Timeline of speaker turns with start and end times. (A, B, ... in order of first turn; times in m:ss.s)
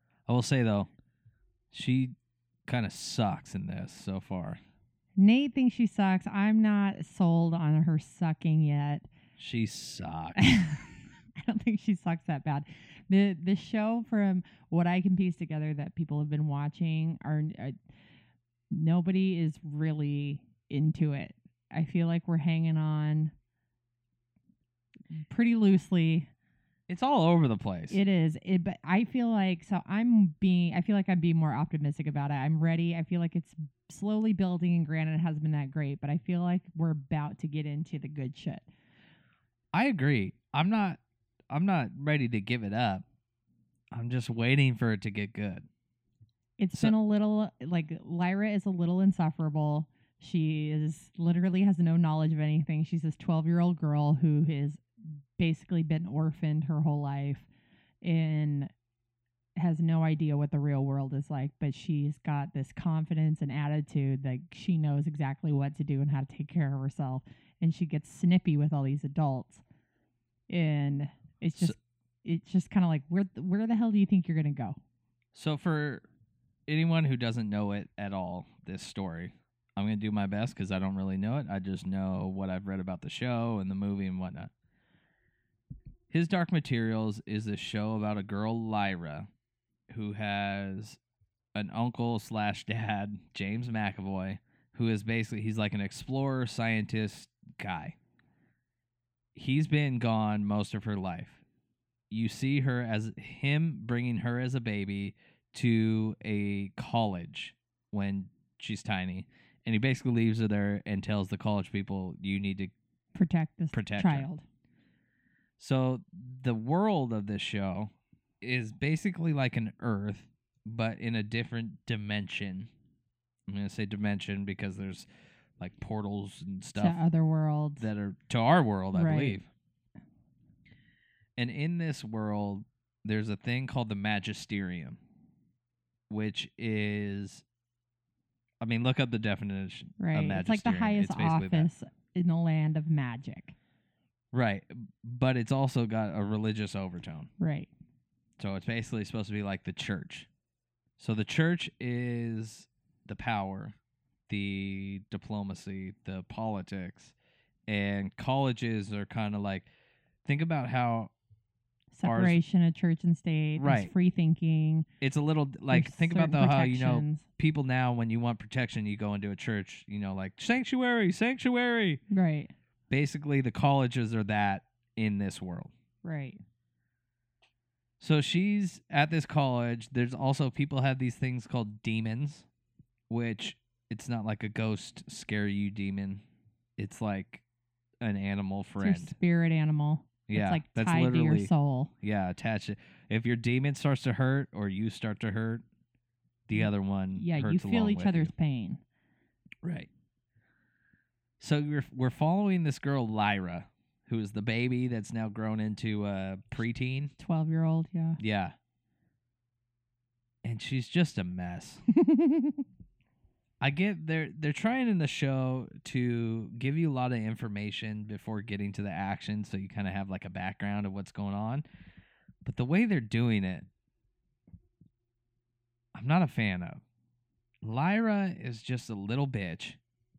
0:00.3-0:00.9 A
0:01.7-0:02.2 A
0:02.7-0:04.6 A
0:05.2-0:09.1 B
0:09.4-0:10.4 A
0:10.4-0:17.8 B
0:18.7-0:23.3 B
0:25.1-0:26.3 B
0:26.9-0:28.0 A
0:27.9-0:38.7 B
0:39.7-0:43.0 A
0:43.9-0:45.7 A
0:46.6-0:57.5 B
0:58.0-0:58.7 B
0:59.6-1:09.6 B
1:10.5-1:14.8 B
1:15.3-1:16.0 A
1:16.7-1:24.5 A
1:26.1-1:29.3 A
1:29.9-1:31.0 A
1:31.6-1:38.0 A
1:39.4-1:41.4 A
1:42.1-1:52.7 A
1:53.2-1:54.4 B
1:53.7-1:54.3 A
1:55.6-1:57.9 A
1:58.4-2:02.7 A
2:03.5-2:05.1 A
2:05.6-2:07.0 A
2:06.8-2:07.9 B
2:07.8-2:09.5 A
2:08.9-2:09.4 B
2:11.4-2:15.0 A
2:16.1-2:17.4 A
2:18.6-2:21.7 A
2:20.0-2:23.6 B
2:24.3-2:27.3 A
2:27.4-2:27.7 B
2:28.4-2:30.3 A
2:31.0-2:33.8 A
2:34.3-2:37.1 A
2:37.7-2:39.7 A
2:40.2-2:41.1 A
2:41.9-2:44.9 B
2:42.0-2:42.4 A
2:43.6-2:43.9 A
2:45.0-2:52.0 A
2:45.7-2:47.2 B
2:52.1-2:52.5 B
2:52.9-2:55.7 A
2:56.0-2:56.4 B
2:58.0-3:02.5 A
3:03.1-3:06.2 A
3:06.8-3:07.4 A
3:08.0-3:09.2 A
3:08.8-3:11.9 B
3:10.3-3:11.5 A
3:12.0-3:15.6 A
3:16.5-3:18.3 A
3:16.6-3:18.8 B
3:19.6-3:19.9 A
3:21.4-3:27.1 A
3:27.2-3:28.2 B
3:28.2-3:28.6 A
3:30.4-3:31.8 A
3:31.9-3:32.6 B
3:33.6-3:41.6 A
3:42.4-3:43.7 A
3:46.0-3:46.8 A
3:47.6-3:49.8 A